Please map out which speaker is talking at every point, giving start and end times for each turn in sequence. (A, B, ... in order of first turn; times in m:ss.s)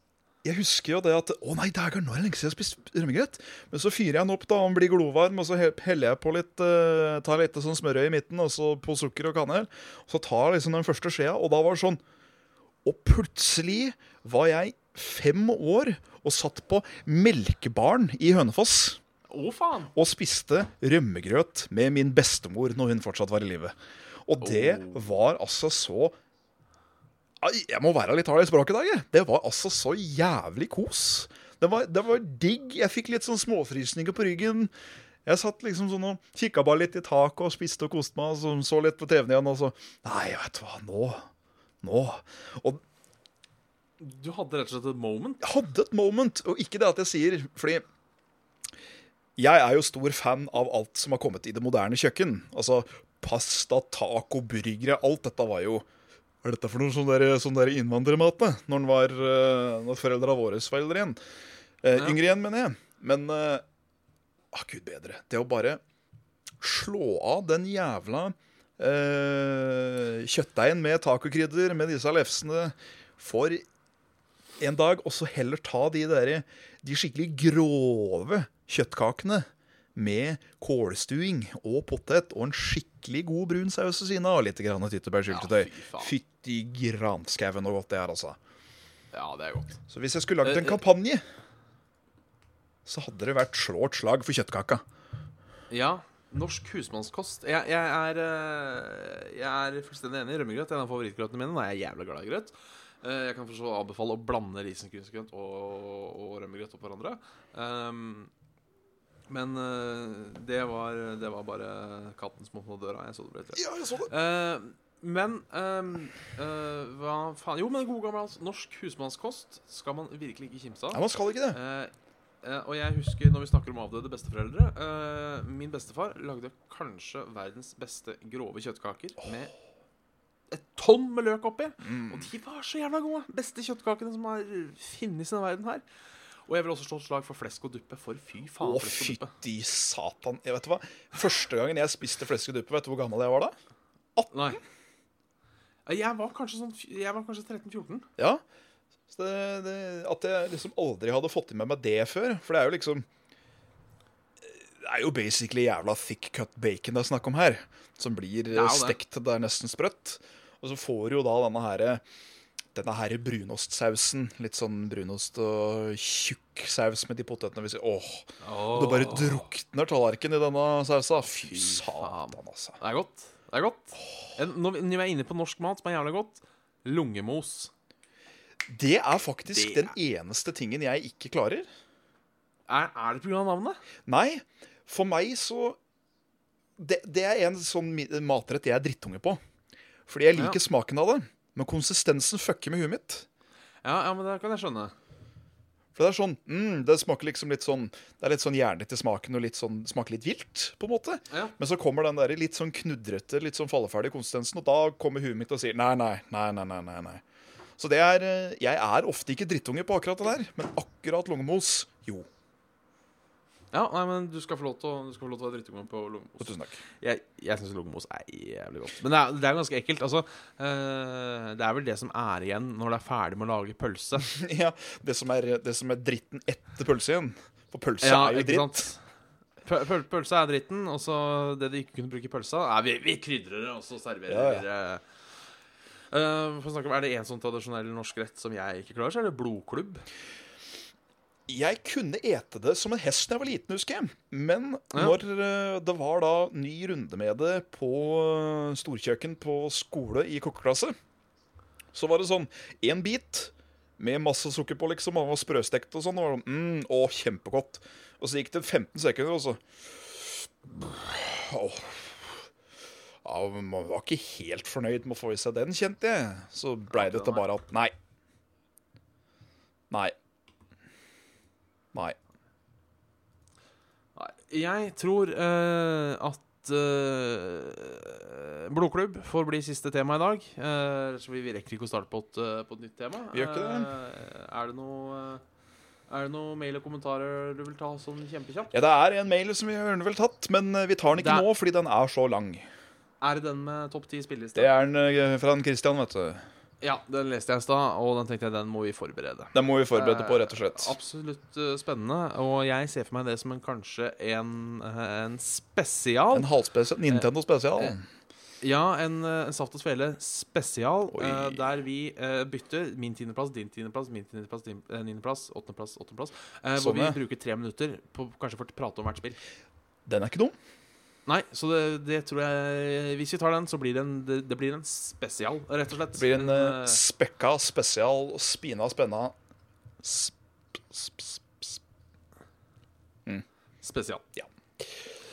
0:00.4-0:12.0 A
0:12.8-0:19.0 A
0:19.3-0:19.9 B
0:19.9-0:23.7 A
0:24.3-0:26.2 A
0:24.4-0:25.1 B
0:27.4-0:34.7 A
0:35.2-0:41.3 A
0:41.8-0:42.8 A
0:44.0-0:45.4 B
0:45.4-0:47.8 A
0:49.4-0:55.8 A
0:56.4-1:01.2 A
1:01.8-1:03.6 A
1:04.5-1:05.8 A
1:06.6-1:13.6 A
1:14.6-1:28.4 A
1:25.3-1:26.1 B
1:29.1-1:29.8 B
1:29.9-1:31.2 A
1:30.4-1:30.8 B
1:32.8-1:34.8 A
1:35.7-1:48.3 B
1:49.3-2:09.5 B
1:53.5-1:54.1 A
2:00.9-2:01.6 A
2:10.5-2:15.8 B
2:11.8-2:12.3 A
2:16.5-2:19.3 B
2:18.6-2:23.5 A
2:24.3-2:24.6 B
2:25.8-2:28.1 B
2:29.1-2:33.1 A
2:34.4-2:42.0 A
2:38.5-2:39.0 B
2:42.7-2:52.8 A
2:48.4-2:49.5 B
2:51.4-2:57.7 B
2:58.7-3:01.7 A
2:59.5-2:59.9 B
3:02.7-3:03.8 B
3:04.1-3:05.8 A
3:06.8-3:09.4 A
3:10.1-3:13.2 A
3:10.3-3:10.6 B
3:13.8-3:14.9 B
3:15.9-3:27.2 A
3:21.3-3:21.5 B
3:27.8-3:32.3 A
3:33.7-3:44.3 B
3:36.4-3:36.8 A
3:44.2-3:48.9 A
3:48.0-3:49.0 B
3:49.6-3:55.0 B
3:54.3-3:54.6 A
3:56.1-4:00.0 B
4:01.5-4:10.9 A
4:11.9-4:22.5 A
4:23.2-4:27.9 A
4:26.9-4:27.5 B
4:34.2-4:45.4 B
4:43.3-4:43.9 A
4:46.1-4:48.8 B
4:48.7-4:52.6 A
4:51.1-4:51.5 B
4:53.2-4:54.7 B
4:54.5-4:56.4 A
4:56.8-5:06.5 B
4:59.5-5:00.9 A
5:06.3-5:08.0 A
5:07.1-5:08.0 B
5:08.6-5:19.4 B
5:11.1-5:11.6 A
5:16.8-5:17.2 A
5:20.0-5:20.5 A
5:21.3-5:27.0 B
5:26.1-5:29.3 A
5:30.0-5:31.8 A
5:33.8-5:34.2 B